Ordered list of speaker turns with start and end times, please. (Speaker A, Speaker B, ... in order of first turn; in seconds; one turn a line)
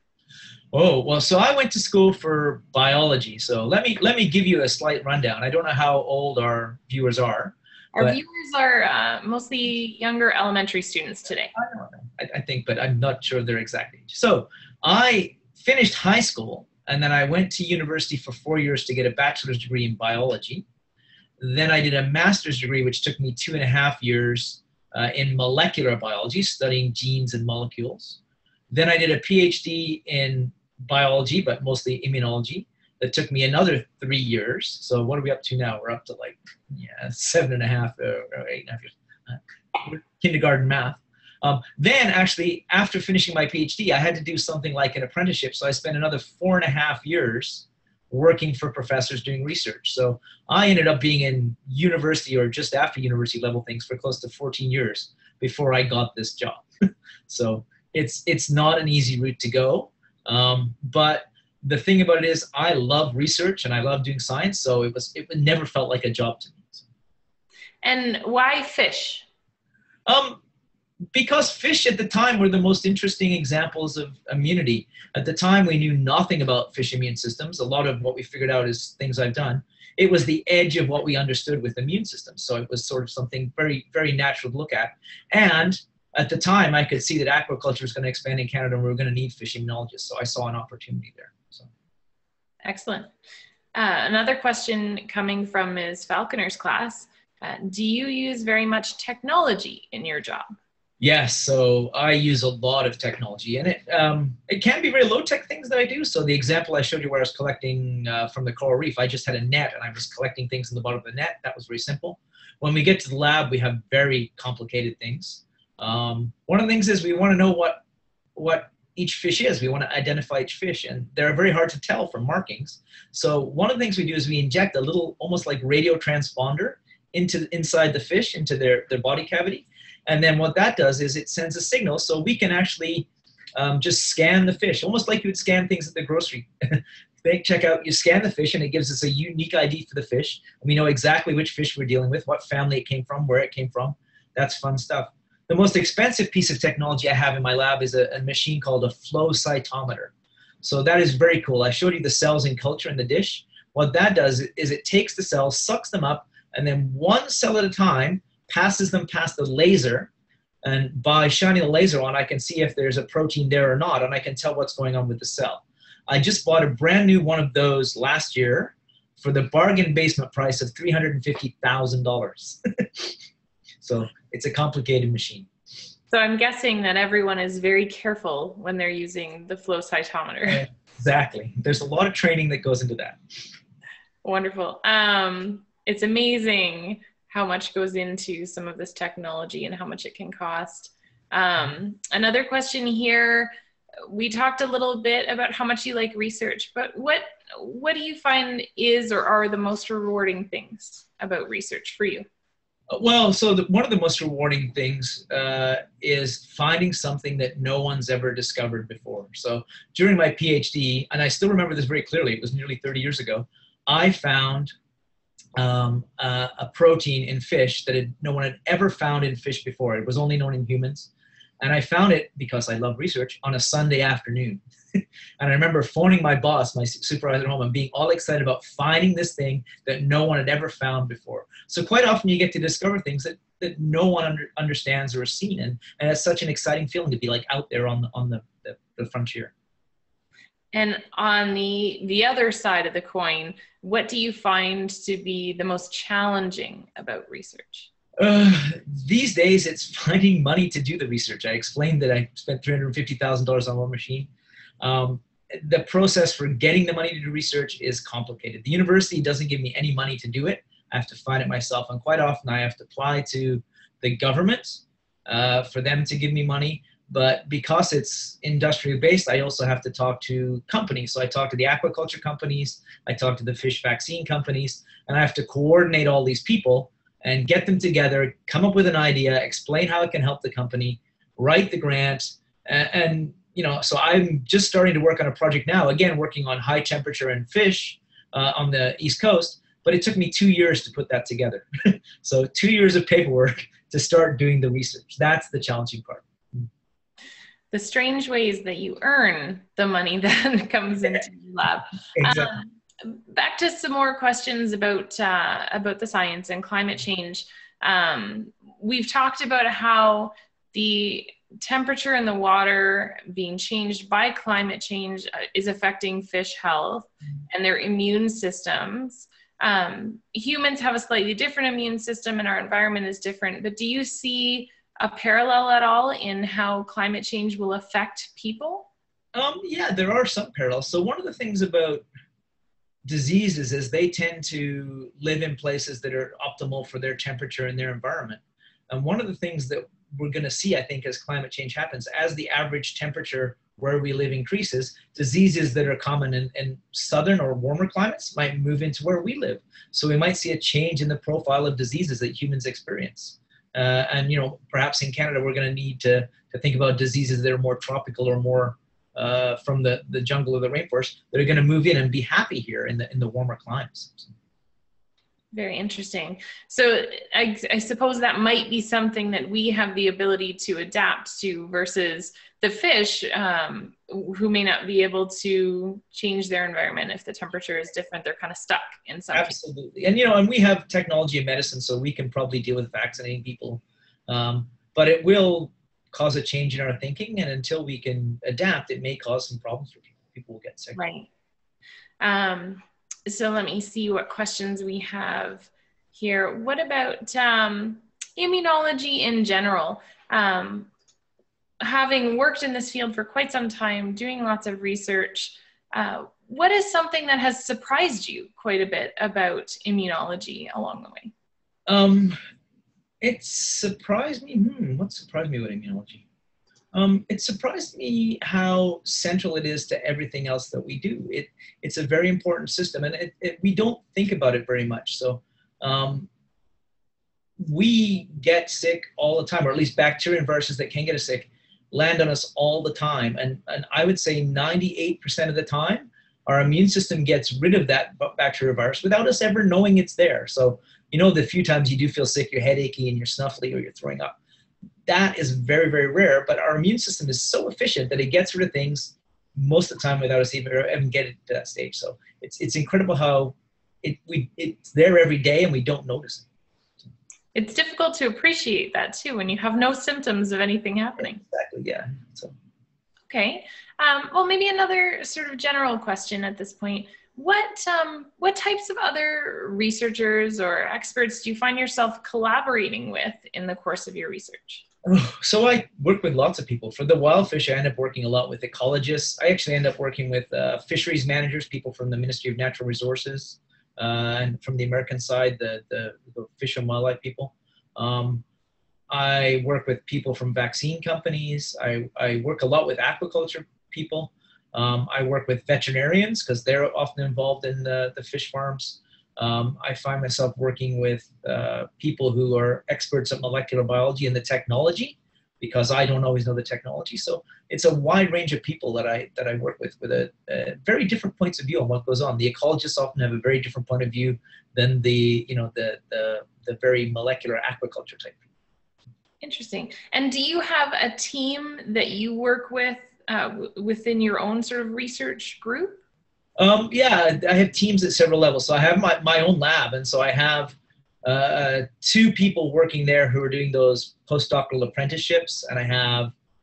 Speaker A: 0.7-8.2
Speaker B: 7.9-11.5
Speaker A: 11.5-20.6
Speaker A: 21.4-28.2
Speaker A: 28.7-56.6
Speaker A: 57.3-66.9
Speaker B: 67.8-69.2
Speaker A: 70.0-70.4
Speaker A: 71.1-91.7
Speaker B: 92.6-93.1
Speaker B: 93.7-100.5
Speaker A: 101.0-117.8
Speaker A: 118.3-160.1
Speaker A: 160.6-173.2
Speaker A: 173.8-175.5
Speaker B: 176.1-180.7
Speaker A: 180.5-183.2
Speaker B: 184.2-193.5
Speaker B: 194.1-202.3
Speaker A: 202.9-214.7
Speaker A: 215.6-221.1
Speaker A: 221.6-239.5
Speaker B: 240.7-247.9
Speaker A: 248.2-254.3
Speaker A: 254.8-296.7
Speaker B: 297.7-328.9
Speaker A: 302.1-302.6
Speaker A: 329.3-332.0
Speaker A: 333.1-364.3
Speaker B: 365.5-379.6
Speaker A: 379.3-391.0
Speaker B: 390.9-391.3
Speaker B: 392.2-400.9
Speaker B: 401.8-411.3
Speaker A: 411.9-412.4
Speaker A: 413.2-416.2
Speaker A: 416.9-426.3
Speaker A: 427.6-444.4
Speaker A: 445.1-456.4
Speaker B: 457.5-461.4
Speaker A: 461.2-462.5
Speaker B: 463.3-474.8
Speaker A: 475.0-488.4
Speaker A: 489.1-518.4
Speaker B: 519.4-526.0
Speaker A: 526.6-536.3